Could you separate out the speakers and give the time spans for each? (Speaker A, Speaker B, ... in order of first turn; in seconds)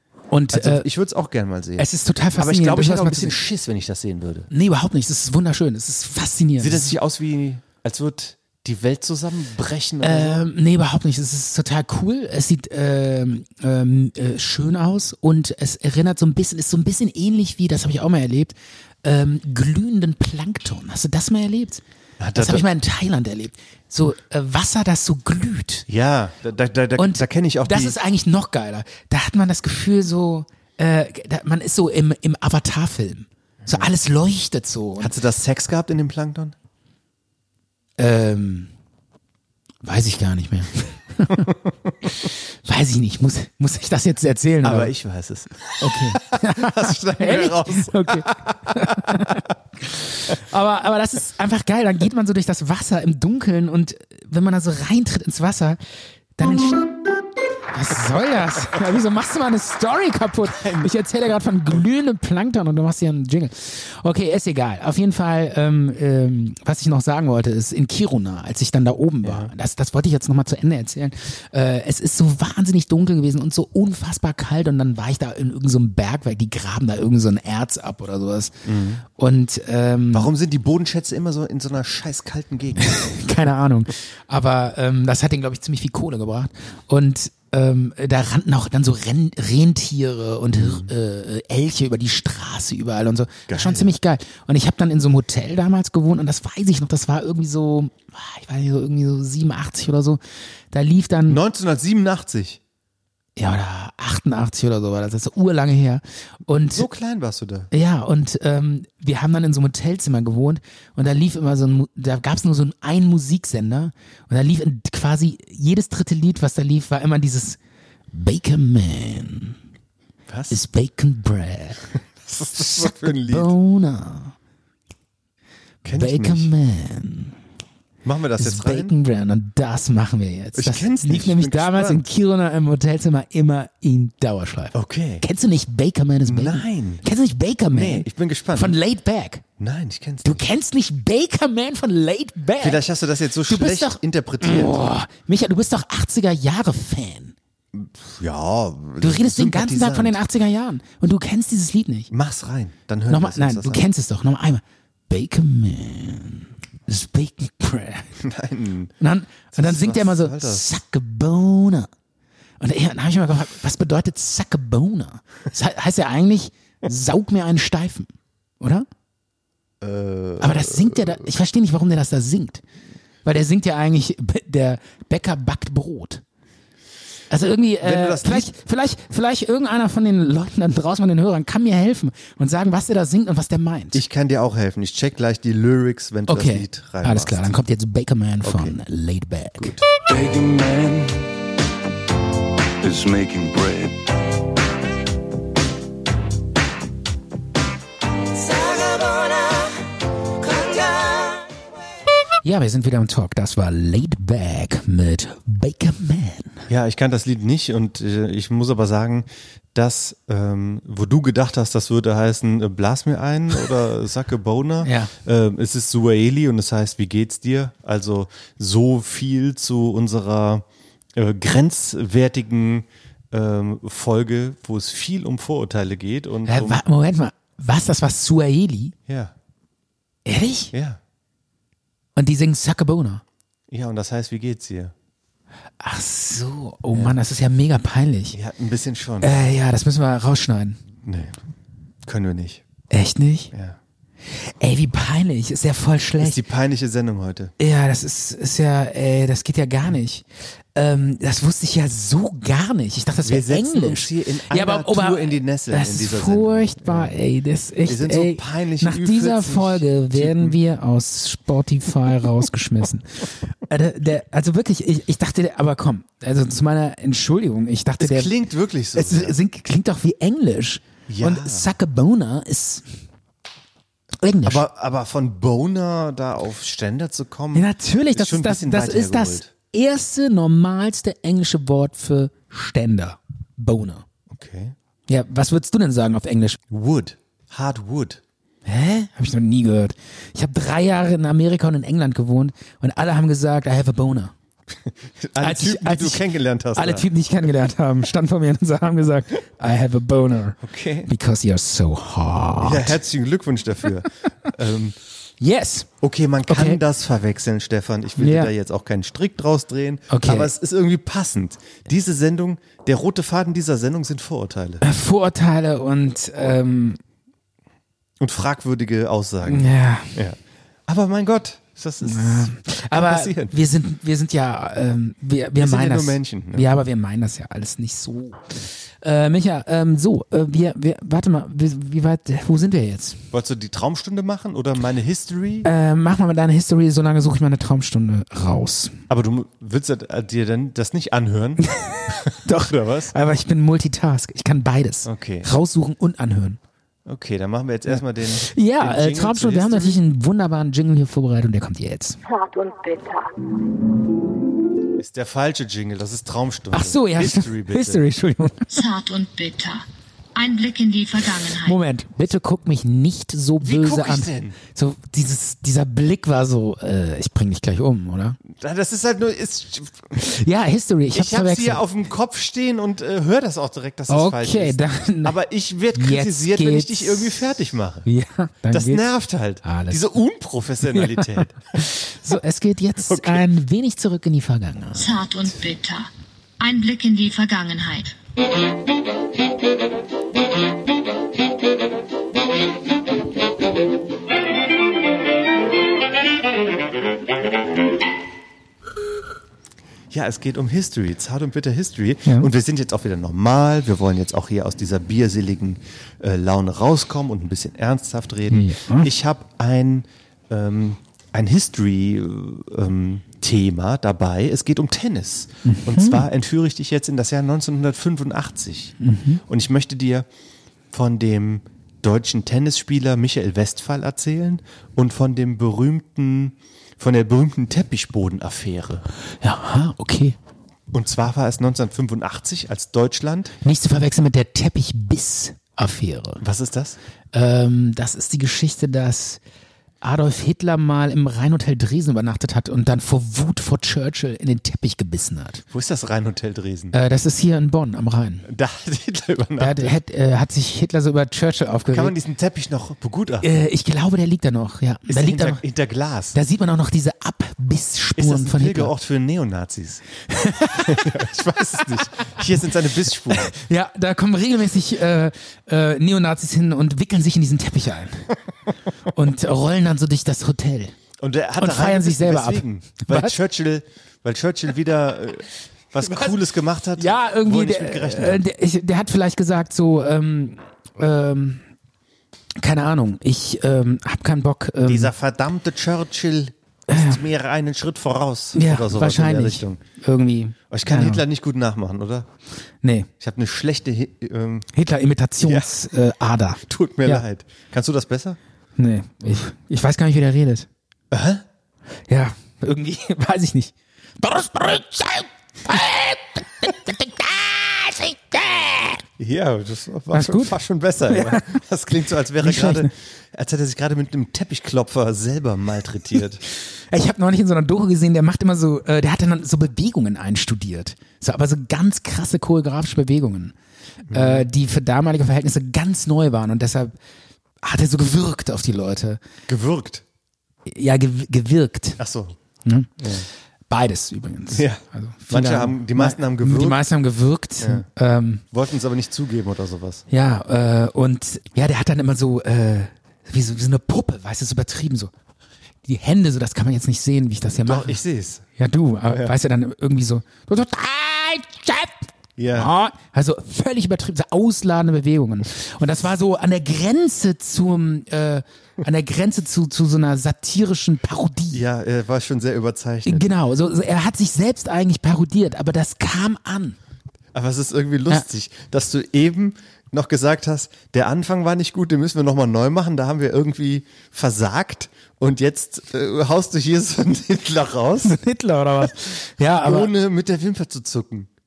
Speaker A: 0.3-0.9, 1.8-3.4, 4.5-7.0, 10.0-21.8, 22.4-25.9, 27.0-35.1, 38.0-38.7, 39.8-41.5, 42.1-44.9, 45.8-55.8, 56.4-56.9, 57.7-78.5, 79.1-80.3, 82.8-100.2, 100.7-101.4, 103.4-106.9, 107.7-117.6, 118.1-119.6, 120.5-121.9, 122.5-124.3, 126.0-127.4, 128.4-139.4, 140.2-142.8, 143.5-147.3, 149.0-152.1, 153.1-158.2, 159.0-161.9, 162.6-168.9, 170.4-172.6, 173.2-176.2, 177.3-184.0, 186.3-189.8, 202.4-206.7, 214.8-215.1, 226.5-228.9, 230.3-230.7, 232.2-233.2, 235.8-238.4, 239.2-240.8, 242.9-243.5, 244.3-246.4, 247.6-268.3, 268.9-272.9, 274.2-274.6, 277.5-284.1, 285.1-286.6, 288.7-294.3, 295.4-303.0, 305.4-305.9, 306.5-306.8, 308.2-308.5, 310.1-310.5, 314.8-317.0, 319.4-320.1, 322.0-333.2, 335.6-339.0, 341.7-346.6, 347.9-352.2, 356.7-358.7, 361.6-368.4, 370.1-371.8, 374.1-375.4, 375.9-377.4, 378.1-379.1, 379.6-380.0, 380.9-385.2, 408.5-409.1, 415.6-416.3, 419.0-419.4, 429.4-430.4, 433.6-436.4, 437.3-439.4, 440.0-445.6, 446.9-448.5, 449.6-452.1, 453.4-455.6, 456.3-458.9, 460.3-461.1, 463.3-468.3, 469.1-470.9, 471.6-473.4, 476.0-476.3, 477.0-481.6, 482.6-485.1, 486.9-487.2, 488.5-491.2, 492.8-493.1, 494.7-497.2, 498.8-500.7, 502.1-509.0, 510.1-511.6, 512.4-512.9, 516.9-523.5, 524.1-527.0, 527.6-529.2, 530.7-532.0, 532.6-538.4, 540.1-545.1, 545.9-548.0, 548.6-561.6, 563.1-566.8, 578.0-579.9
Speaker B: 0.5-4.5, 6.6-10.4, 22.2-22.7, 25.9-28.0, 33.6-33.9, 35.0-36.5, 44.6-49.4, 60.5-60.9, 69.2-69.5, 78.7-79.0, 80.1-83.2, 90.5-90.9, 93.5-93.9, 101.3-102.6, 106.7-107.7, 120.3-120.6, 122.2-123.5, 125.8-126.5, 128.0-128.9, 130.6-132.1, 134.7-135.2, 136.3-137.0, 137.7-138.8, 139.6-140.5, 142.6-144.8, 147.7-150.2, 152.1-153.8, 158.2-158.9, 159.5-160.7, 169.8-171.3, 177.8-178.5, 183.9-187.5, 188.4-188.8, 189.6-189.8, 206.7-226.8, 229.1-229.3, 230.7-231.0, 233.7-234.9, 236.9-237.2, 238.3-239.4, 241.0-241.4, 242.1-242.6, 243.5-243.8, 246.2-247.5, 253.2-257.1, 257.9-260.6, 268.0-269.4, 271.1-271.7, 274.4-279.5, 284.3-284.8, 286.7-288.2, 294.9-297.1, 300.6-301.1, 302.6-305.0, 306.0-314.8, 318.2-323.6, 325.6-326.7, 333.3-335.7, 339.1-341.7, 342.3-343.1, 345.1-345.5, 347.1-350.0, 354.9-358.0, 363.6-364.6, 368.5-370.1, 371.1-378.1, 378.7-381.8, 383.0-383.4, 400.1-418.9, 419.5-420.3, 420.9-429.1, 430.9-433.6, 436.4-437.0, 445.7-446.9, 448.5-450.0, 451.9-453.6, 455.1-456.4, 458.2-460.0, 460.8-463.5, 471.2-478.4, 484.8-489.8, 490.7-492.3, 493.2-494.7, 495.4-495.7, 496.7-498.4, 501.1-501.4, 509.2-516.4, 524.1-524.5, 529.5-530.0, 532.0-532.4, 533.0-533.3, 534.5-536.9, 537.6-537.9, 538.5-540.0, 547.6-548.4, 549.1-549.3, 552.4-552.7, 561.5-563.3, 567.3-578.2, 579.4-581.3
Speaker C: 190.1-191.3, 192.8-194.0
Speaker D: 352.2-353.3, 358.7-361.8, 385.0-388.1